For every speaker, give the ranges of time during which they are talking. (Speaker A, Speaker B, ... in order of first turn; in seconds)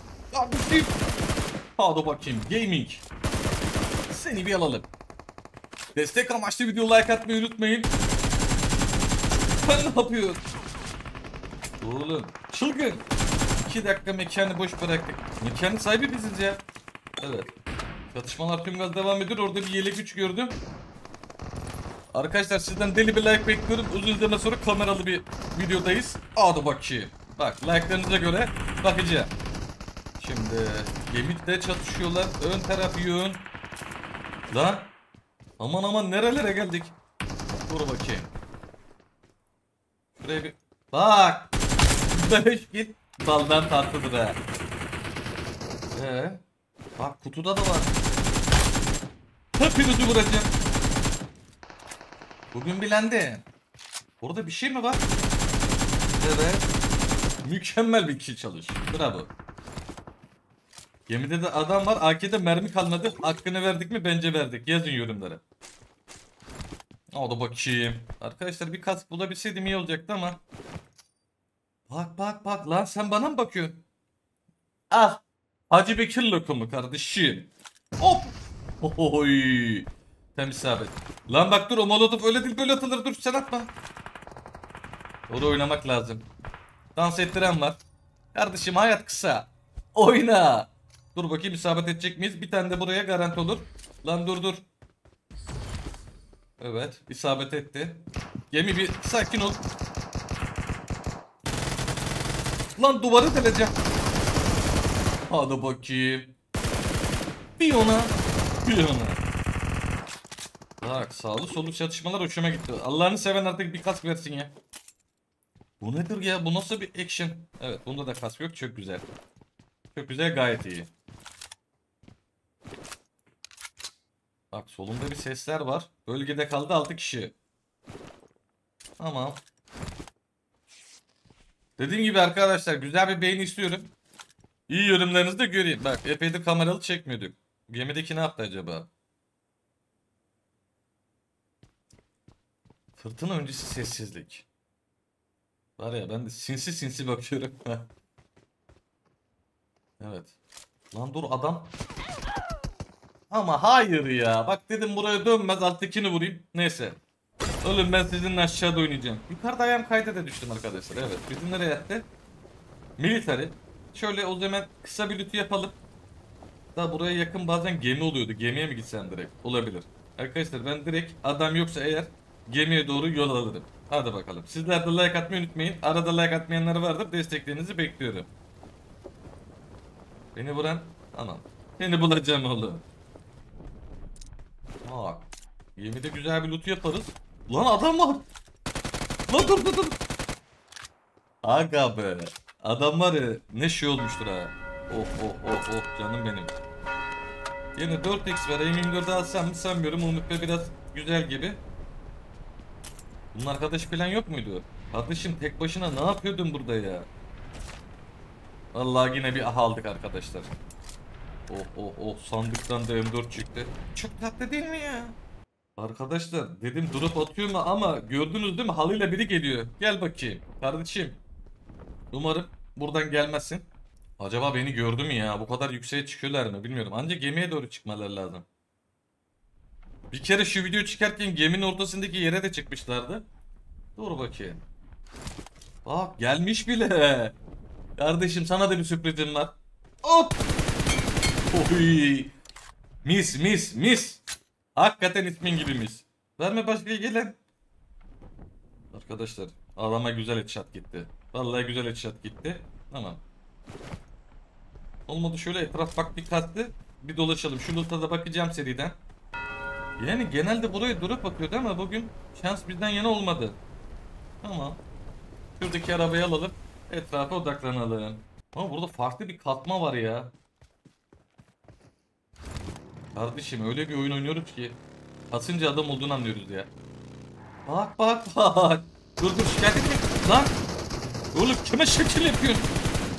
Speaker A: 0.3-1.0, 1.8-3.0, 4.1-4.9, 5.9-7.9, 9.6-10.4, 11.8-13.1, 13.6-16.6, 17.2-17.5, 18.1-20.6, 22.1-29.3, 30.2-33.5, 34.5-34.9, 35.6-37.0, 37.5-38.3, 40.2-41.5, 42.1-44.4, 45.9-46.4, 47.0-47.9, 49.6-50.5, 52.5-53.5, 54.2-55.1, 56.2-56.7, 57.4-59.3, 61.1-65.4, 67.1-70.4, 71.9-73.8, 74.9-83.7, 85.3-86.3, 86.9-87.8, 88.3-94.6, 96.6-99.7, 102.8-103.8, 105.3-106.3, 107.6-109.2, 110.8-114.5, 115.8-119.1, 119.9-120.9, 124.5-127.3, 129.0-129.4, 131.8-133.9, 134.7-138.9, 143.0-144.4, 145.8-147.9, 150.0-150.3, 150.9-151.7, 153.3-157.0, 157.6-162.1, 163.0-165.8, 166.7-178.3, 180.3-182.8, 184.8-188.3, 189.3-190.0, 191.4-196.5, 197.8-201.6, 203.3-207.1, 208.7-210.5, 211.5-215.2, 215.8-221.2, 222.1-223.7, 224.2-228.4, 230.1-233.3, 233.9-234.6, 235.8-237.3, 238.0-240.4, 241.5-242.3, 243.0-244.2, 244.7-247.4, 248.9-253.2, 255.1-259.0, 260.0-263.6, 264.4-264.8, 265.6-270.3, 273.1-276.7, 277.6-280.6, 281.3-282.7